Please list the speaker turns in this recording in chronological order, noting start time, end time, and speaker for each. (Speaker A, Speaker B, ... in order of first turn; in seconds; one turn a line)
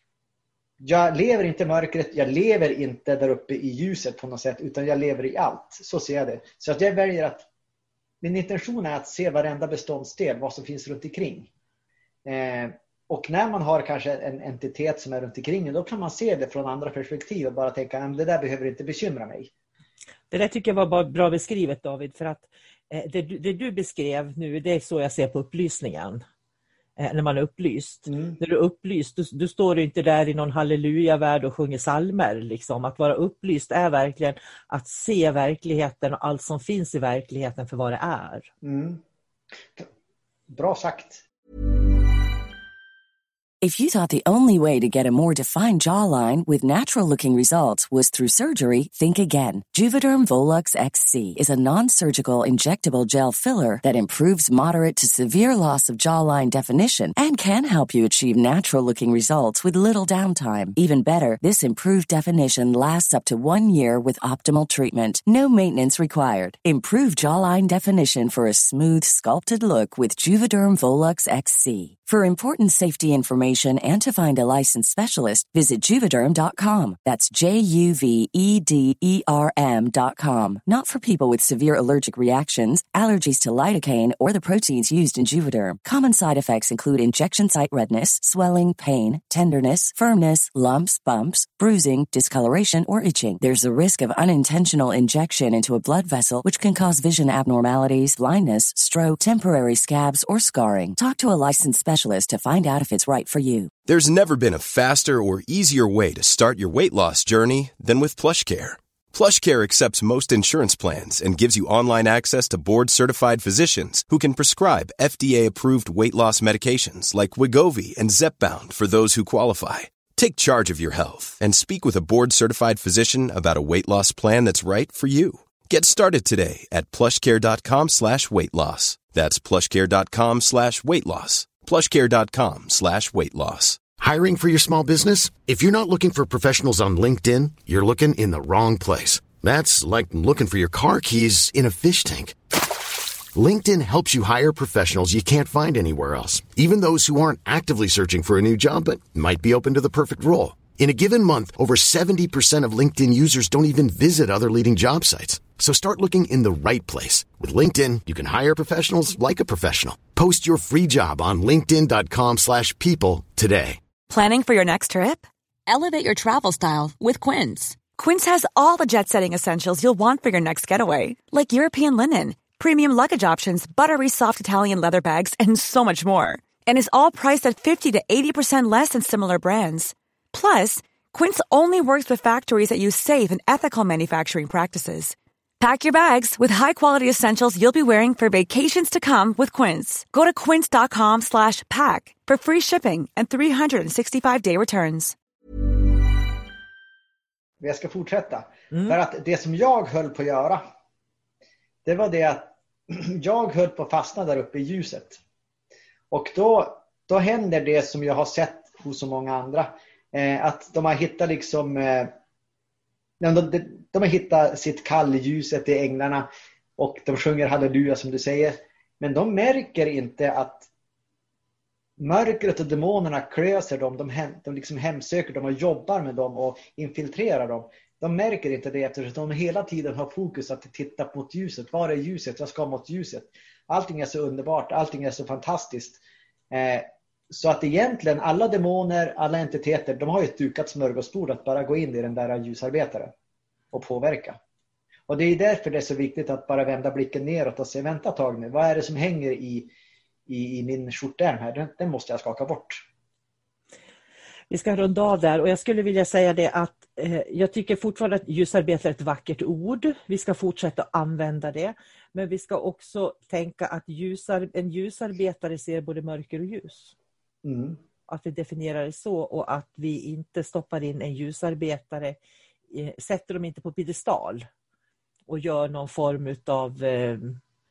Speaker A: 0.8-7.5
Speaker A: 8.2-11.5
Speaker A: 12.2-19.5
Speaker B: 20.3-26.2
Speaker B: 27.0-38.5
Speaker A: 28.1-28.4
Speaker A: 38.6-39.0
Speaker A: 40.5-41.2
Speaker C: 43.6-103.7
Speaker D: 103.9-133.8
Speaker E: 134.0-163.8
Speaker F: 164.1-195.1
Speaker A: 197.6-200.6
Speaker B: 198.7-199.0
Speaker A: 201.8-205.2
Speaker A: 206.1-212.1
Speaker A: 213.2-220.7
Speaker A: 222.0-243.1
Speaker A: 243.7-244.4
Speaker A: 245.1-249.7
Speaker A: 250.3-252.8
Speaker B: 254.5-266.9
Speaker A: 267.4-267.8
Speaker B: 268.1-272.2
Speaker B: 272.7-274.4
Speaker B: 275.3-277.4